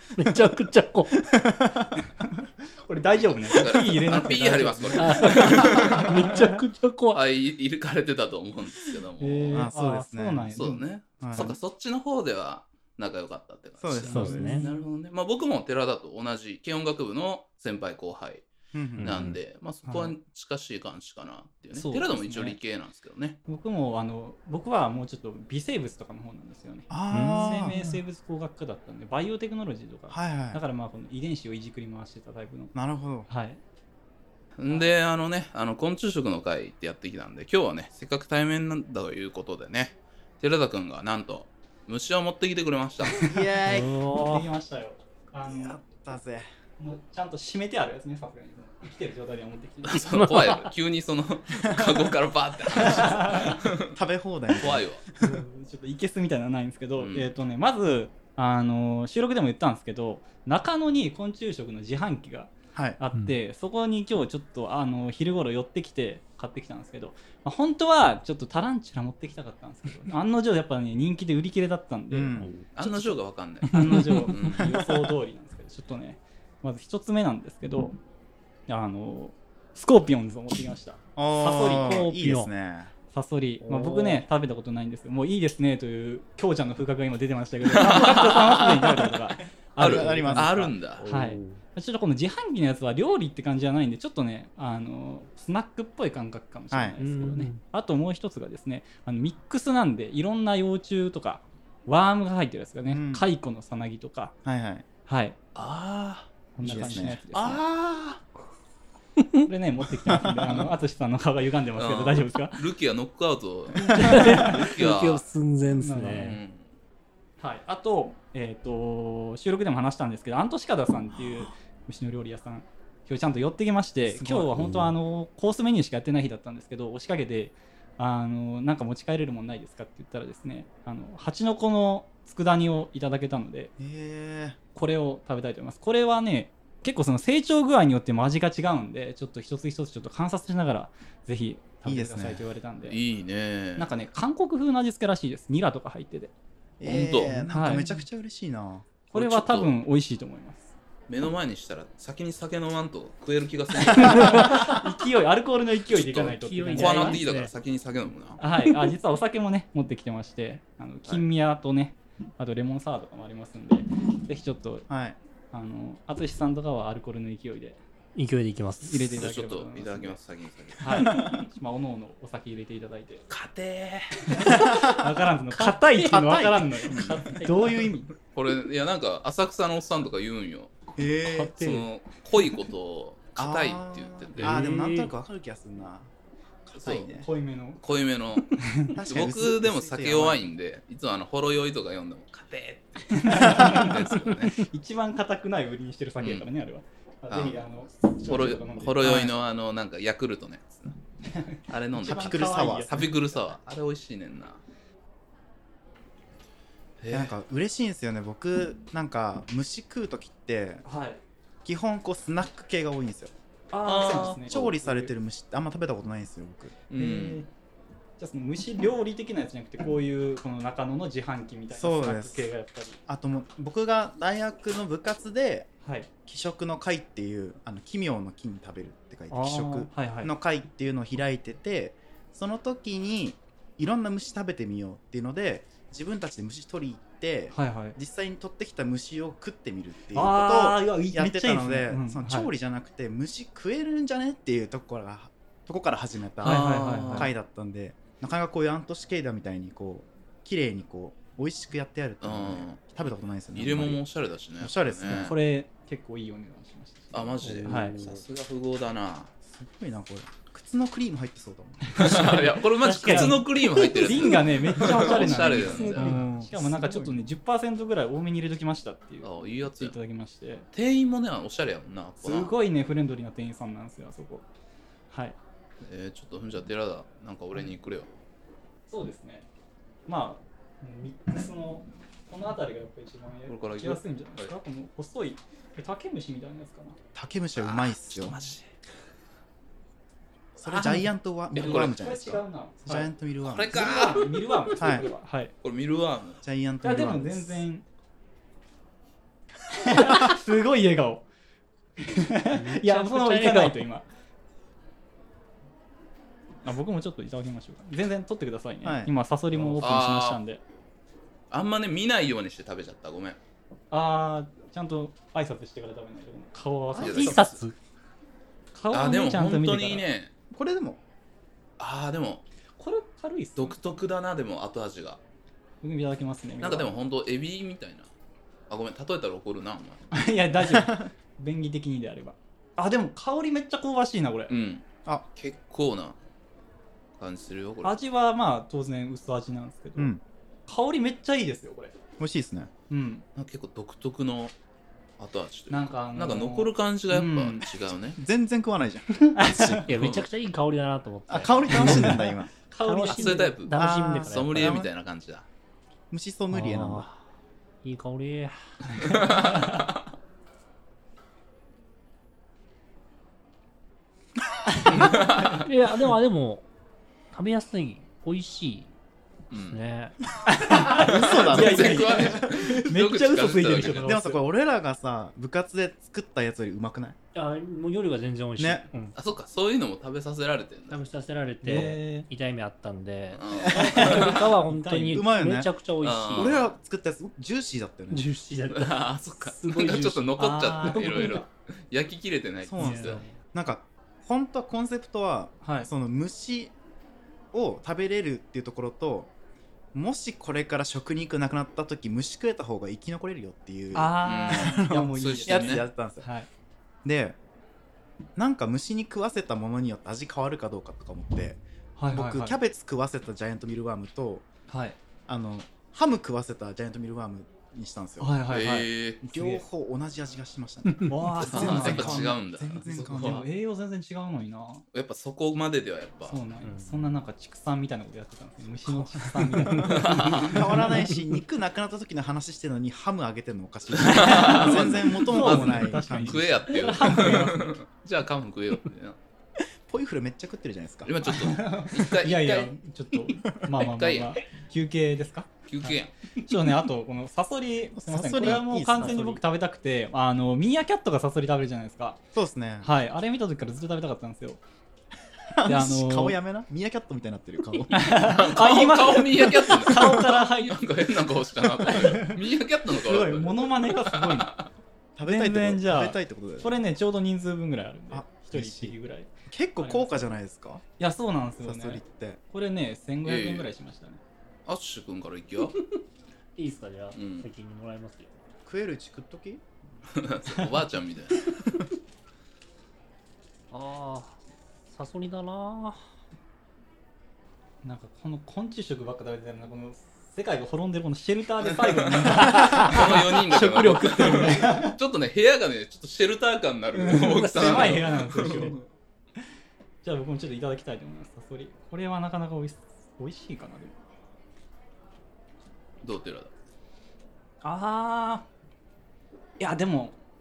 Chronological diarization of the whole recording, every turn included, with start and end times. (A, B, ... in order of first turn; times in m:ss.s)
0:00.2-0:01.2 A
0:01.2-0:01.9 B
0:02.8-0:06.6 C
0:03.2-0:06.2 D
0:05.0-0:07.2 A
0:07.1-0:09.6 D
0:09.2-0:10.8 C
0:09.5-0:11.6 B
0:10.6-0:23.4 D
0:13.8-0:14.7 B
0:14.1-0:14.6 A
0:14.1-0:14.7 C
0:18.7-0:19.3 B
0:19.0-0:19.4 A
0:19.9-0:20.1 C
0:21.9-0:22.6 C
0:23.5-0:32.8 C
0:26.9-0:28.0 B
0:27.1-0:27.8 A
0:30.1-0:30.6 B
0:32.8-0:33.3 B
0:33.3-0:33.6 C
0:34.6-0:43.3 D
0:34.7-0:34.9 C
0:43.2-0:44.0 B
0:43.6-0:44.5 A
0:44.1-0:45.8 C
0:45.5-0:46.5 B
0:46.8-0:50.3 C
0:49.9-0:54.0 D
0:50.1-0:50.7 A
0:51.6-0:52.1 B
0:52.8-0:53.6 C
0:53.3-0:55.4 B
0:54.6-0:55.0 D
0:55.2-1:13.2 C
0:57.0-0:57.3 D
1:02.7-1:03.0 B
1:12.1-1:12.5 B
1:12.4-1:12.7 A
1:12.8-1:14.7 D
1:13.7-1:14.3 A
1:13.7-1:18.0 C
1:18.7-1:22.1 C
1:21.2-1:22.9 B
1:21.6-1:22.5 A
1:23.1-1:44.4 C
1:23.6-1:24.2 A
1:27.7-1:29.1 D
1:29.8-1:31.1 D
1:29.8-1:30.8 B
1:30.1-1:30.4 A
1:31.0-1:31.6 A
1:36.7-1:37.0 B
1:37.0-1:37.6 A
1:42.9-1:43.3 B
1:44.4-1:44.8 B
1:45.1-1:45.4 C
1:45.6-1:46.3 D
1:46.6-1:47.6 C
1:46.6-1:48.2 B
1:49.2-1:49.4 A
1:49.4-1:52.6 C
1:50.1-1:50.6 B
1:51.8-1:55.2 D
1:53.9-1:54.7 C
1:54.0-1:56.4 A
1:55.8-1:56.4 C
1:56.1-1:56.7 D
1:57.4-2:13.7 C
2:04.0-2:04.5 B
2:04.6-2:04.9 A
2:13.8-2:14.6 B
2:14.8-2:23.0 C
2:21.8-2:22.5 B
2:22.8-2:23.9 D
2:23.8-2:26.3 C
2:26.8-2:28.9 B
2:26.8-2:27.5 D
2:27.5-2:27.9 C
2:29.1-2:30.7 C
2:29.1-2:29.7 D
2:31.1-2:34.6 D
2:33.9-2:37.2 C
2:34.2-2:34.7 A
2:35.9-2:38.4 D
2:36.4-2:37.5 A
2:38.4-2:44.9 C
2:38.6-2:38.9 A
2:44.9-2:45.2 B
2:45.5-2:47.8 C
2:48.2-2:49.3 A
2:48.8-2:50.2 C
2:49.2-2:51.3 D
2:50.8-2:53.3 C
2:53.3-2:54.4 D
2:54.3-2:58.1 C
2:54.5-2:58.0 B
2:56.9-2:57.2 D
2:58.3-3:00.7 D
3:01.0-3:01.7 B
3:01.4-3:01.8 C
3:01.6-3:04.6 D
3:03.4-3:06.1 B
3:04.4-3:05.1 A
3:06.7-3:07.3 B
3:06.8-3:07.1 D
3:06.9-3:07.8 C
3:07.8-3:14.6 D
3:08.5-3:09.0 C
3:09.0-3:10.4 B
3:13.1-3:19.3 C
3:16.2-3:16.5 D
3:17.3-3:17.7 D
3:18.2-3:21.0 D
3:19.0-3:19.3 B
3:21.2-3:23.1 C
3:21.7-3:24.6 D
3:22.0-3:23.1 B
3:27.0-3:27.4 D
3:27.1-3:30.8 B
3:30.8-3:31.2 C
3:31.6-3:33.3 B
3:33.7-3:35.1 C
3:33.8-3:34.7 D
3:34.3-3:36.8 B
3:36.9-3:37.4 D
3:37.0-3:37.5 C
3:38.2-3:43.0 C
3:41.7-3:42.5 B
3:43.1-3:45.7 B
3:45.8-3:46.1 C
3:46.3-4:14.0 B
3:49.3-3:50.3 C
3:57.5-3:58.0 C
4:00.1-4:02.5 C
4:06.4-4:07.3 D
4:06.4-4:07.3 C
4:12.2-4:12.9 D
4:13.5-4:15.4 D
4:14.6-4:15.4 B
4:15.1-4:18.0 C
4:17.1-4:19.3 D
4:17.4-4:18.2 A
4:19.5-4:22.2 B
4:21.9-4:30.7 C
4:21.9-4:26.2 D
4:22.8-4:24.2 A
4:24.9-4:27.1 A
4:25.8-4:27.1 B
4:29.2-4:30.0 D
4:30.7-4:32.5 D
4:32.2-4:34.4 C
4:35.1-4:35.4 C
4:35.8-4:38.1 D
4:38.9-4:39.5 C
4:40.1-4:47.0 C
4:43.5-4:44.5 D
4:47.2-4:48.4 B
4:47.6-4:48.7 D
4:50.6-4:53.9 B
4:51.5-4:52.0 D
4:51.6-4:53.1 C
4:53.4-4:54.9 D
4:53.7-4:55.5 C
4:54.8-4:55.1 B
4:55.6-4:56.4 D
4:56.4-4:57.6 B
4:56.8-4:57.8 C
4:59.7-5:01.2 C
5:02.0-5:04.1 C
5:02.5-5:03.8 A
5:06.6-5:10.6 C
5:08.8-5:09.1 B
5:09.8-5:10.4 D
5:11.5-5:13.4 D
5:13.9-5:17.6 C
5:17.0-5:17.8 A
5:17.0-5:17.6 D
5:18.7-5:20.1 C
5:18.9-5:20.3 D
5:20.5-5:21.0 B
5:21.8-5:22.4 D
5:22.8-5:24.0 C
5:23.6-5:25.2 D
5:25.8-5:27.0 C
5:26.6-5:28.1 D
5:28.7-5:30.1 D
5:30.1-5:34.5 C
5:30.6-5:31.1 B
5:34.5-5:36.2 D
5:37.2-5:38.0 D
5:37.8-5:40.1 C
5:40.0-5:40.2 B
5:40.7-5:42.0 C
5:42.2-5:42.7 B
5:42.9-5:43.3 C
5:43.4-5:44.5 D
5:45.2-5:48.2 D
5:45.7-5:47.7 C
5:48.2-5:49.9 B
5:49.2-5:49.9 C
5:49.8-5:54.8 A
5:49.9-5:50.3 D
5:51.3-5:52.5 B
5:51.8-5:52.1 C
5:52.7-5:53.6 C
5:53.1-5:55.5 D
5:53.7-5:54.9 B
5:56.1-5:57.1 B
5:56.5-5:57.2 A
5:57.8-5:59.3 A
5:59.0-5:59.9 D
6:04.9-6:06.6 A
6:05.0-6:05.7 D
6:07.3-6:08.9 A
6:09.5-6:09.8 D
6:09.6-6:10.2 A
6:10.5-6:14.4 C
6:10.7-6:12.6 B
6:10.9-6:14.1 D
6:14.0-6:17.2 B
6:17.3-6:19.2 A
6:18.6-6:18.9 B
6:19.2-6:21.0 D
6:20.9-6:26.6 A
6:21.6-6:22.3 C
6:23.3-6:24.4 D
6:23.7-6:25.3 C
6:23.7-6:24.2 B
6:25.1-6:25.7 B
6:26.0-6:26.8 D
6:26.3-6:28.3 B
6:28.1-6:31.3 A
6:28.7-6:33.2 D
6:30.4-6:31.5 C
6:32.6-6:36.7 B
6:32.8-6:33.3 A
6:35.6-6:35.9 C
6:37.5-6:39.3 B
6:39.9-6:46.3 B
6:43.9-6:46.5 C
6:44.2-6:45.9 D
6:47.0-6:47.4 B
6:48.4-6:54.5 B
6:52.0-6:52.6 C
6:54.7-6:55.0 C
6:55.3-6:58.4 B
6:58.2-6:59.6 C
6:58.5-6:59.2 D
6:59.3-7:03.5 B
7:01.0-7:02.4 C
7:01.4-7:03.4 D
7:03.1-7:04.8 C
7:04.9-7:06.4 D
7:06.2-7:10.7 C
7:06.6-7:07.1 A
7:08.9-7:17.5 B
7:09.8-7:10.6 D
7:10.5-7:11.2 A
7:14.0-7:19.2 D
7:14.1-7:17.7 C
7:19.9-7:21.1 B
7:21.0-7:22.8 D
7:21.3-7:32.2 C
7:23.7-7:24.4 D
7:25.7-7:26.1 D
7:28.0-7:29.4 B
7:32.3-7:32.9 B
7:32.8-7:34.6 C
7:35.5-7:38.3 B
7:35.7-7:36.4 C
7:37.9-7:40.8 C
7:38.1-7:44.7 D
7:41.8-7:44.6 C
7:45.2-7:46.8 B
7:45.2-7:50.3 C
7:48.1-7:49.0 B
7:49.5-7:50.8 B
7:51.0-7:54.2 C
7:51.6-7:52.4 B
7:53.2-7:53.7 D
7:54.7-7:55.8 D
7:56.6-7:58.3 A
7:57.1-7:57.5 D
7:58.6-7:59.6 B
8:00.1-8:01.4 D
8:03.7-8:04.4 A
8:04.9-8:06.0 A
8:07.8-8:15.0 C
8:12.3-8:18.8 D
8:16.9-8:18.8 C
8:17.3-8:18.1 A
8:20.0-8:24.0 C
8:26.0-8:26.5 D
8:27.6-8:28.5 C
8:29.6-8:30.2 C